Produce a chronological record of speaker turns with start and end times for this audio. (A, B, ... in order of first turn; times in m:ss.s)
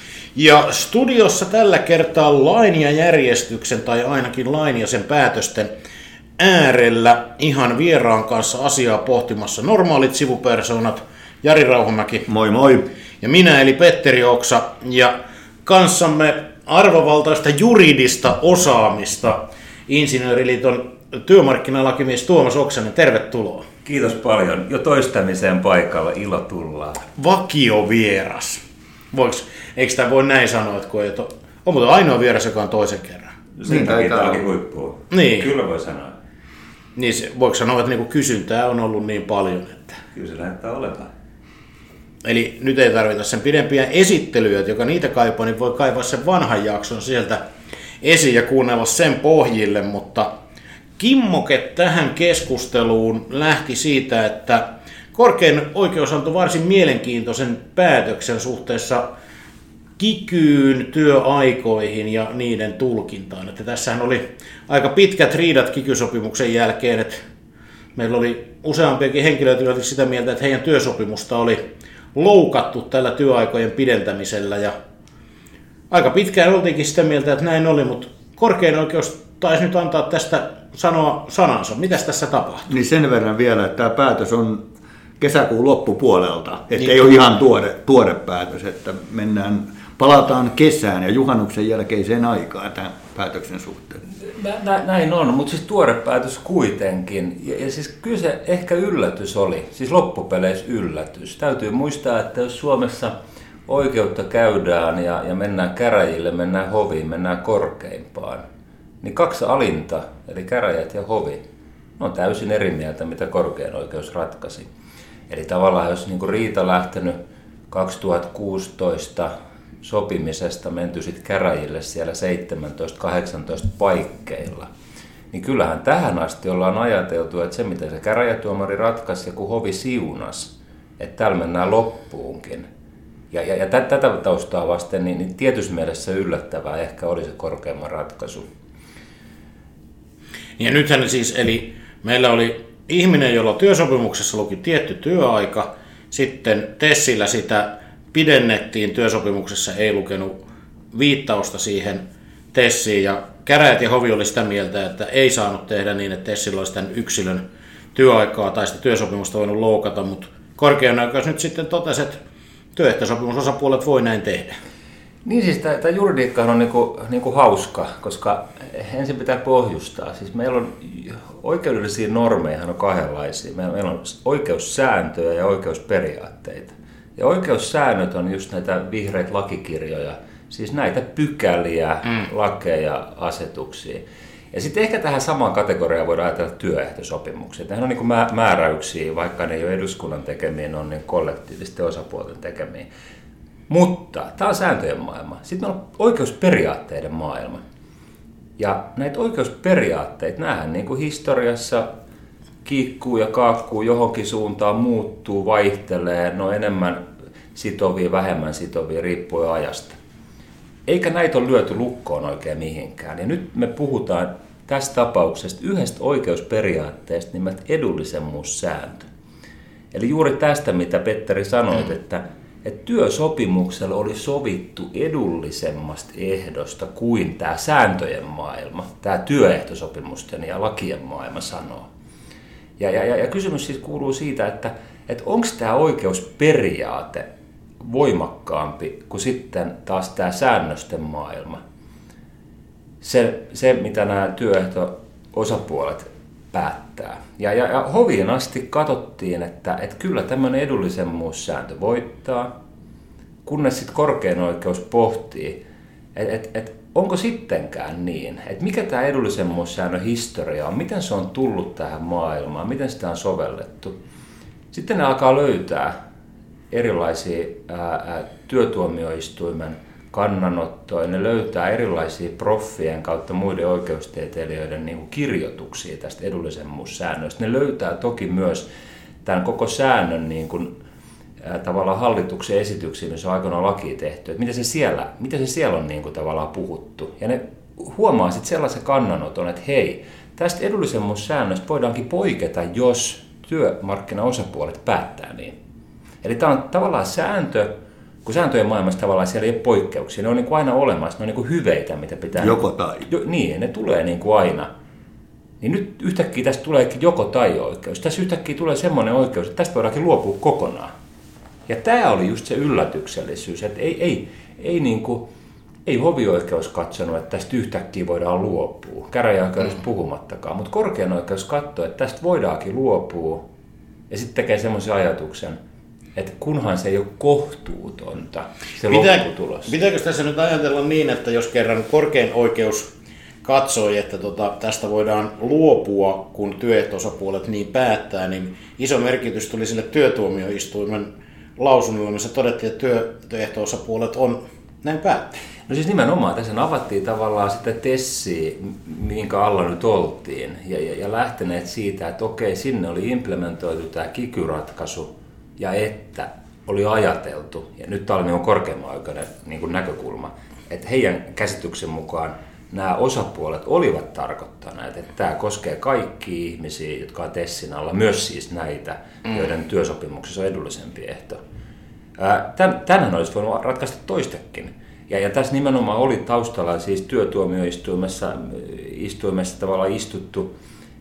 0:00.4-0:05.7 A
0:06.4-0:12.3 A
0:12.3-0:12.9 B
0:13.2-0:23.7 A
0:23.8-0:27.0 C
0:27.2-0:33.4 A
0:33.6-0:36.2 C
0:33.6-0:34.4 B
0:35.1-0:35.5 A
0:37.0-0:40.0 A
0:40.1-0:41.1 C
0:42.2-0:47.4 A
0:48.0-0:50.3 A
0:51.0-0:59.1 A
1:00.0-1:07.2 A
1:08.0-1:11.6 A
1:12.2-1:14.8 A
1:15.9-1:22.7 A
1:22.7-1:34.0 B
1:34.2-1:43.2 C
1:43.7-1:48.4 C
1:49.0-1:51.4 C
1:52.0-1:54.7 C
1:55.3-1:57.2 C
1:57.7-1:59.3 C
1:59.8-2:04.7 C
2:05.3-2:12.7 C
2:13.3-2:18.4 C
2:20.6-2:30.4 A
2:30.9-2:32.0 A
2:32.5-2:37.4 A
2:38.0-2:42.2 A
2:42.8-2:44.6 A
2:45.2-3:12.9 C
3:13.7-3:17.6 C
3:18.6-3:21.9 C
3:22.6-3:27.0 C
3:27.5-3:30.0 C
3:30.9-3:39.1 C
3:39.9-3:51.9 C
3:52.8-3:57.3 C
3:57.8-4:01.6 C
4:03.0-4:12.5 C
4:13.4-4:15.6 C
4:16.2-4:24.0 C
4:24.7-4:26.0 C
4:26.7-4:38.7 C
4:39.2-4:40.7 C
4:41.4-4:55.6 C
4:56.2-4:57.7 C
4:58.2-5:04.7 C
5:02.4-5:03.1 B
5:05.6-5:10.9 C
5:11.7-5:15.3 C
5:15.9-5:23.5 C
5:24.1-5:25.6 C
5:26.2-5:29.7 C
5:28.9-5:32.9 A
5:33.4-5:45.4 A
5:45.7-6:11.4 C
6:12.2-6:20.5 C